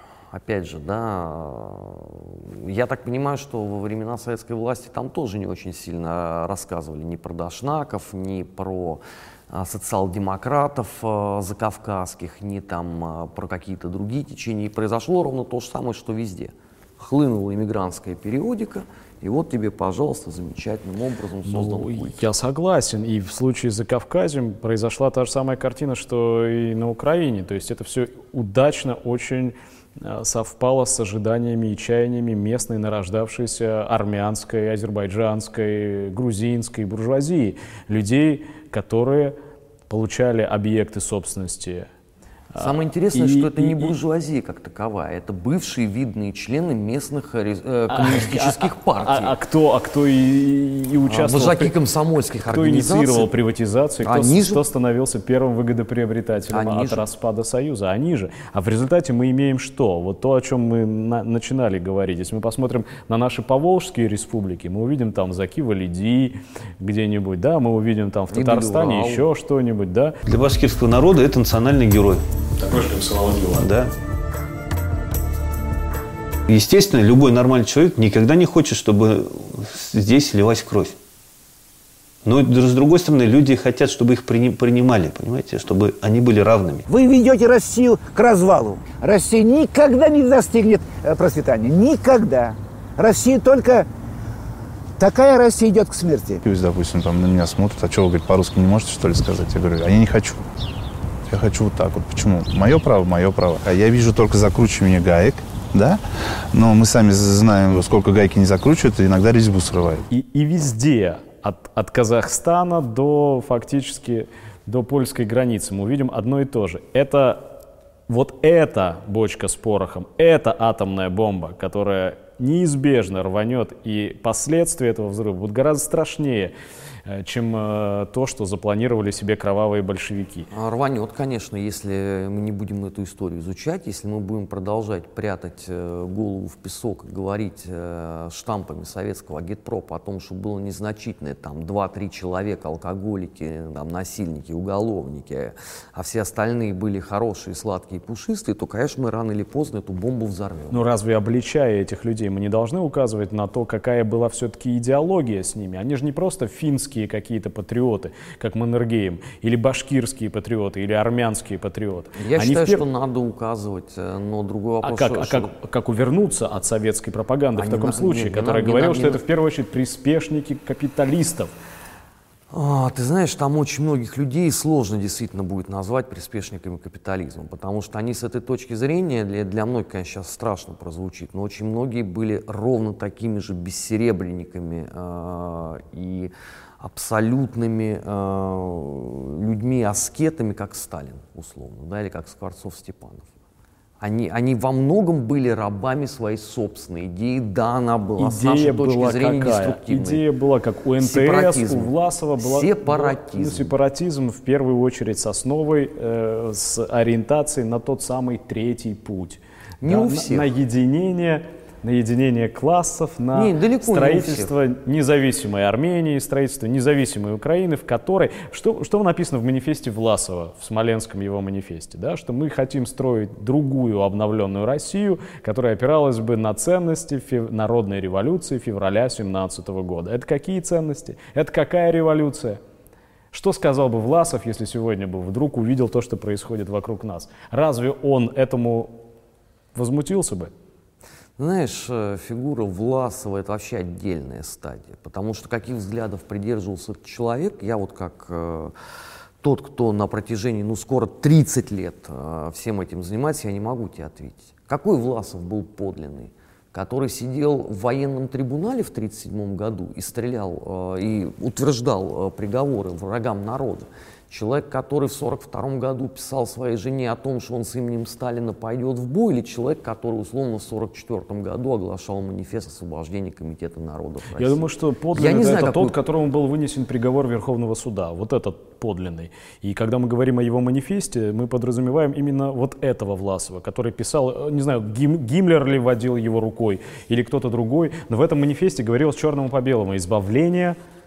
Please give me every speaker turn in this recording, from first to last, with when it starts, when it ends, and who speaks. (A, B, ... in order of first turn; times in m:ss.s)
0:00.3-0:22.3 A
0:21.4-0:39.4 B
0:39.9-0:41.9 B
0:42.5-0:43.9 B
0:42.6-0:49.4 A
0:47.9-0:51.7 B
0:51.0-0:53.3 A
0:52.4-1:10.2 B
0:54.0-0:54.6 A
0:56.5-0:57.0 A
1:08.3-1:09.3 A
1:10.2-1:12.2 C
1:12.6-1:13.6 B
1:13.5-1:13.9 C
1:16.5-1:21.0 C
1:22.2-1:26.8 C
1:26.9-1:33.9 D
1:35.0-1:36.4 D
1:36.4-1:40.4 E
1:41.2-1:50.0 E
1:50.1-1:57.5 B
1:58.1-2:06.5 B
2:07.0-2:10.5 B
2:10.5-2:30.8 A
2:30.7-2:42.8 B
2:42.2-2:45.5 A
2:44.8-2:51.5 B
2:47.5-2:49.2 A
2:52.5-3:13.3 A
3:14.0-3:20.2 A
3:18.2-3:52.6 B
3:21.0-3:23.7 A
3:29.8-3:30.5 A
3:33.3-3:34.5 A
3:53.3-3:59.0 B
3:59.7-4:00.5 B
4:01.4-4:08.7 A
4:09.4-4:36.0 A
4:34.4-4:50.8 B